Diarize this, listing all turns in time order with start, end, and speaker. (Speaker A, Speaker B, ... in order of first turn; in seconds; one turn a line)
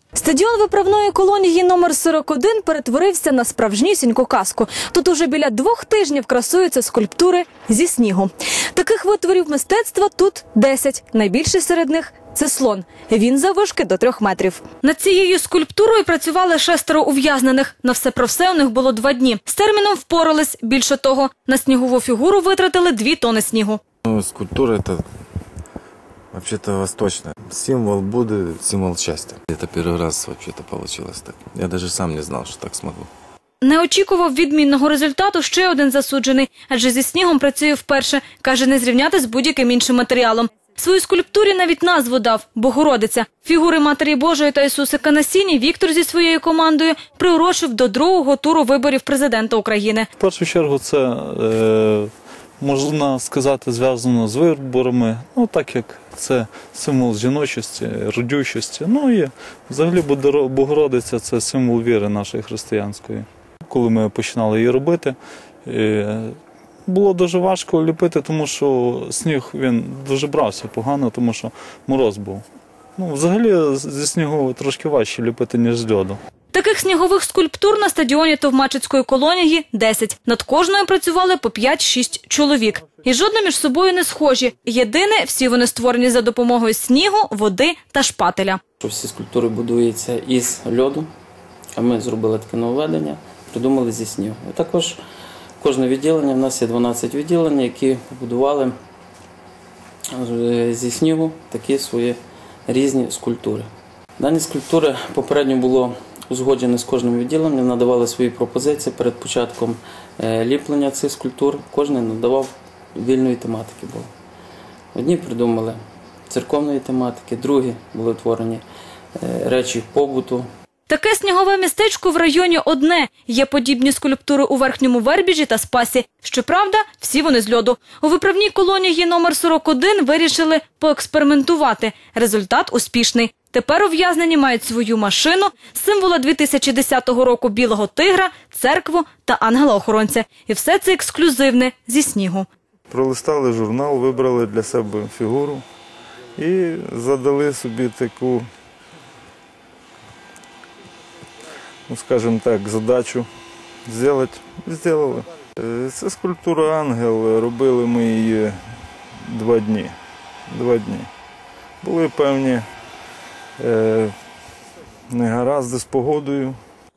Speaker A: 0.1-23.8
Speaker B: 24.0-25.0
Speaker B: 26.3-33.1
Speaker A: 33.6-50.1
Speaker C: 50.2-72.4
Speaker C: 73.0-76.2
Speaker A: 76.5-88.6
Speaker D: 88.8-91.1
Speaker D: 91.7-95.0
Speaker D: 95.6-98.7
Speaker D: 100.1-114.1
Speaker D: 114.9-118.6
Speaker D: 119.2-120.5
Speaker A: 120.9-142.5
Speaker E: 142.9-145.6
Speaker E: 146.3-148.5
Speaker E: 151.9-153.3
Speaker E: 153.9-158.6
Speaker E: 159.2-159.9
Speaker E: 160.5-161.1
Speaker E: 161.8-162.6
Speaker E: 163.6-164.1
Speaker E: 165.1-166.6